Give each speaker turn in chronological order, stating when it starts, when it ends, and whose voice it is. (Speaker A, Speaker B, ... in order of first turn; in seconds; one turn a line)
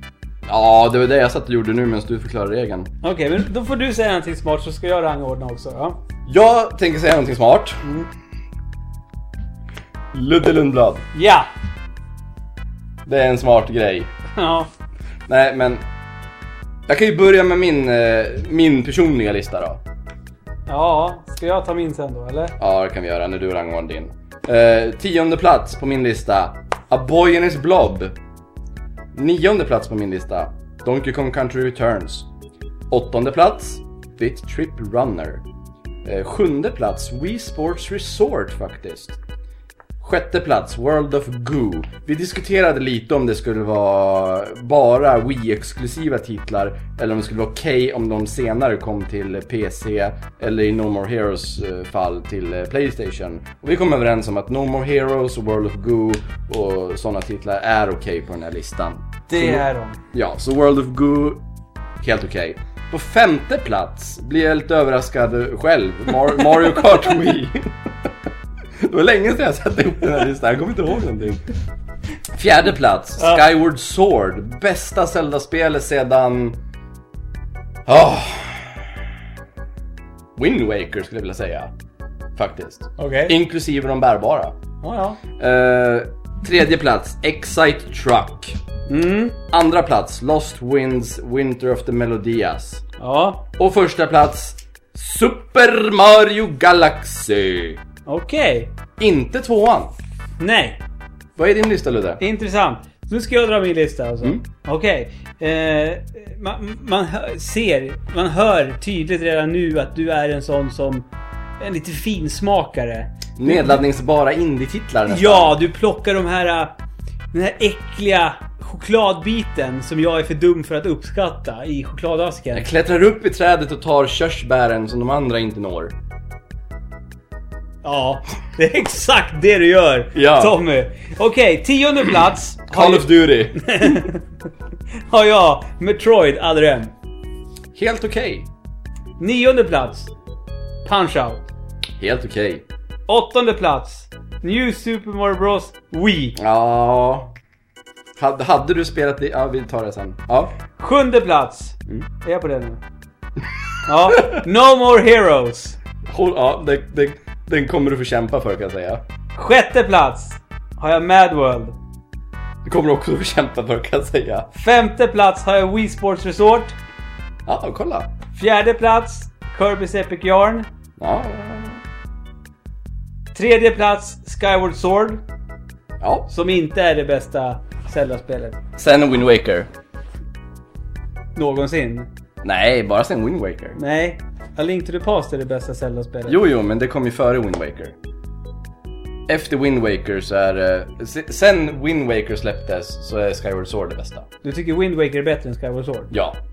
Speaker A: 0.5-2.9
Speaker B: 3.0-6.0
Speaker A: 6.3-7.8
Speaker B: 7.8-8.1
Speaker A: 10.1-11.1
Speaker B: 11.1-11.5
Speaker A: 13.1-14.1
Speaker B: 14.3-14.7
Speaker A: 15.3-15.8
Speaker A: 16.9-19.8
Speaker B: 20.7-22.6
Speaker A: 22.6-28.1
Speaker A: 29.1-32.3
Speaker A: 32.9-35.5
Speaker A: 36.0-39.2
Speaker A: 40.0-61.4
Speaker B: 59.3-60.0
Speaker A: 62.0-67.7
Speaker A: 68.8-71.5
Speaker A: 72.3-76.6
Speaker B: 73.2-73.5
Speaker A: 77.9-78.8
Speaker A: 80.4-81.7
Speaker A: 82.3-84.6
Speaker B: 83.0-83.4
Speaker B: 84.8-85.2
Speaker A: 85.4-88.6
Speaker B: 88.9-89.4
Speaker A: 89.5-92.8
Speaker B: 93.0-93.5
Speaker A: 93.6-97.8
Speaker B: 98.1-98.7
Speaker A: 99.0-99.9
Speaker B: 100.4-100.8
Speaker A: 101.4-102.2
Speaker B: 102.2-111.1
Speaker B: 111.6-113.8
Speaker A: 113.4-115.6
Speaker B: 115.1-116.8
Speaker B: 117.3-122.7
Speaker A: 122.5-126.0
Speaker B: 127.8-134.3
Speaker A: 130.2-130.6
Speaker A: 132.7-134.1
Speaker B: 135.1-136.9
Speaker A: 137.8-138.5
Speaker B: 139.2-140.1
Speaker B: 140.8-141.5
Speaker A: 142.0-142.7
Speaker B: 143.1-146.4
Speaker A: 146.4-147.3
Speaker A: 148.2-150.6
Speaker B: 150.8-152.8
Speaker B: 153.8-155.8
Speaker A: 156.1-159.0
Speaker B: 159.3-161.8
Speaker A: 162.6-164.5
Speaker B: 164.5-166.8
Speaker A: 167.5-168.1
Speaker B: 168.3-170.7
Speaker A: 171.0-171.8
Speaker B: 173.3-175.2
Speaker A: 176.0-176.3
Speaker B: 176.3-178.6
Speaker A: 178.8-179.7
Speaker B: 181.3-182.1
Speaker A: 182.4-183.8
Speaker B: 183.8-186.4
Speaker A: 186.3-188.0
Speaker A: 189.3-194.3
Speaker B: 194.4-196.2
Speaker A: 196.1-196.4